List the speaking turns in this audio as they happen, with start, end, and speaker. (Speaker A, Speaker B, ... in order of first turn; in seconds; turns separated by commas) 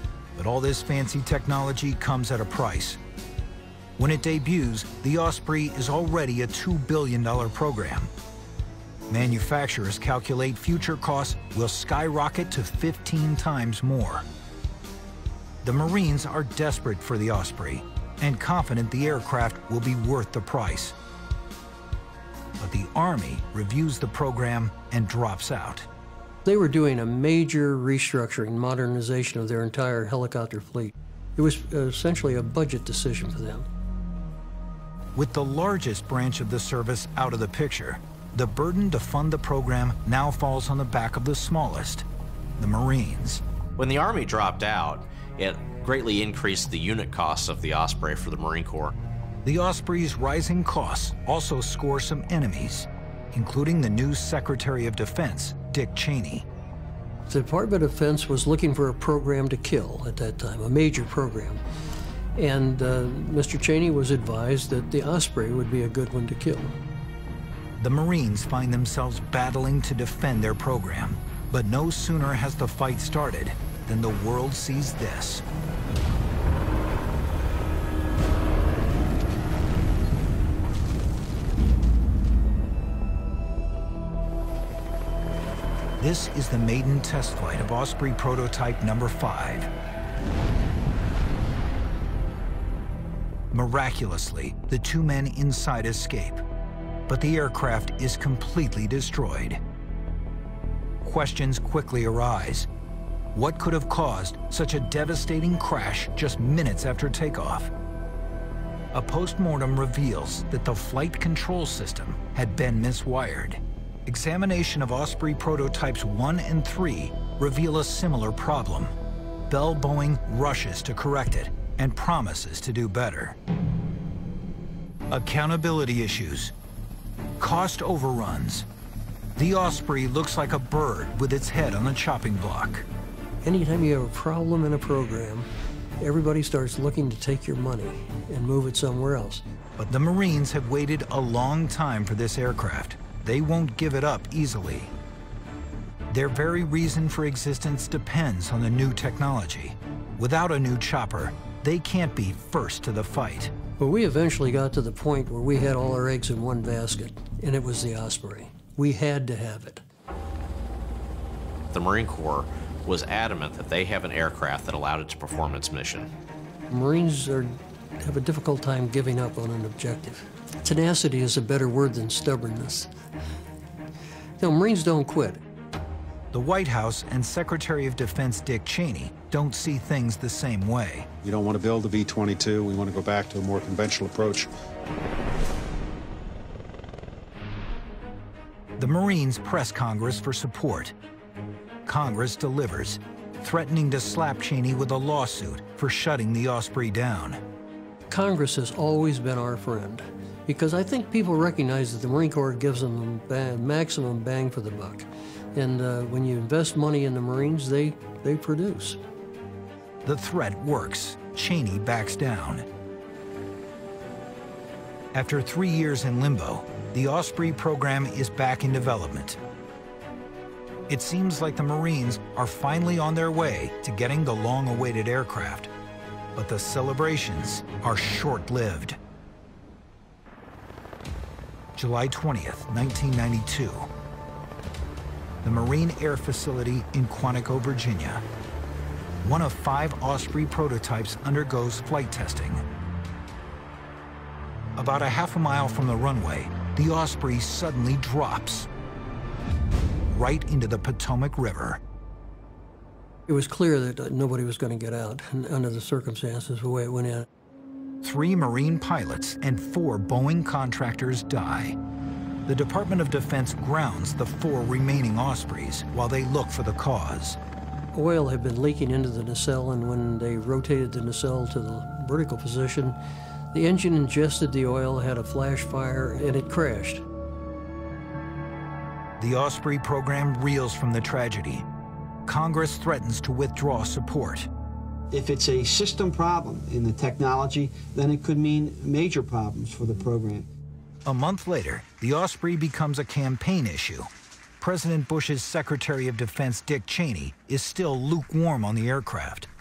Speaker A: 0.3-3.0, Speaker A: 4.0-8.1, Speaker A: 9.1-14.2, Speaker A: 15.6-20.9, Speaker A: 22.6-25.9, Speaker B: 26.4-33.7, Speaker A: 35.1-42.0, Speaker A: 42.6-43.4, Speaker C: 43.8-48.9, Speaker A: 49.4-56.5, Speaker B: 57.3-61.6, Speaker B: 62.4-66.7, Speaker A: 67.8-75.4, Speaker A: 86.0-89.7, Speaker A: 93.5-96.4, Speaker A: 97.1-99.6, Speaker A: 101.0-102.7, Speaker A: 103.3-107.7, Speaker A: 108.9-118.9, Speaker A: 119.5-123.4, Speaker A: 125.1-126.5, Speaker A: 127.4-128.7, Speaker A: 129.3-132.9, Speaker B: 133.4-135.5, Speaker B: 136.0-139.4, Speaker A: 139.8-144.9, Speaker A: 146.1-153.5, Speaker B: 153.8-159.8, Speaker C: 161.7-166.1, Speaker B: 166.7-172.9, Speaker B: 174.4-175.4, Speaker A: 176.3-181.1, Speaker D: 181.2-184.5, Speaker A: 188.8-190.9, Speaker A: 191.8-197.4, Speaker B: 198.1-209.0, Speaker A: 210.0-212.7, Speaker A: 215.1-219.4, Speaker A: 220.9-225.7, Speaker A: 226.3-229.0, Speaker A: 231.8-233.9, Speaker A: 235.4-238.2, Speaker A: 239.2-242.6, Speaker A: 244.8-248.7, Speaker A: 250.1-251.8, Speaker B: 253.3-257.3, Speaker A: 258.0-261.8, Speaker A: 262.4-267.4, Speaker B: 267.9-273.0, Speaker B: 273.5-277.0, Speaker A: 279.2-281.6, Speaker A: 282.2-284.5, Speaker E: 285.1-290.4, Speaker A: 291.0-299.5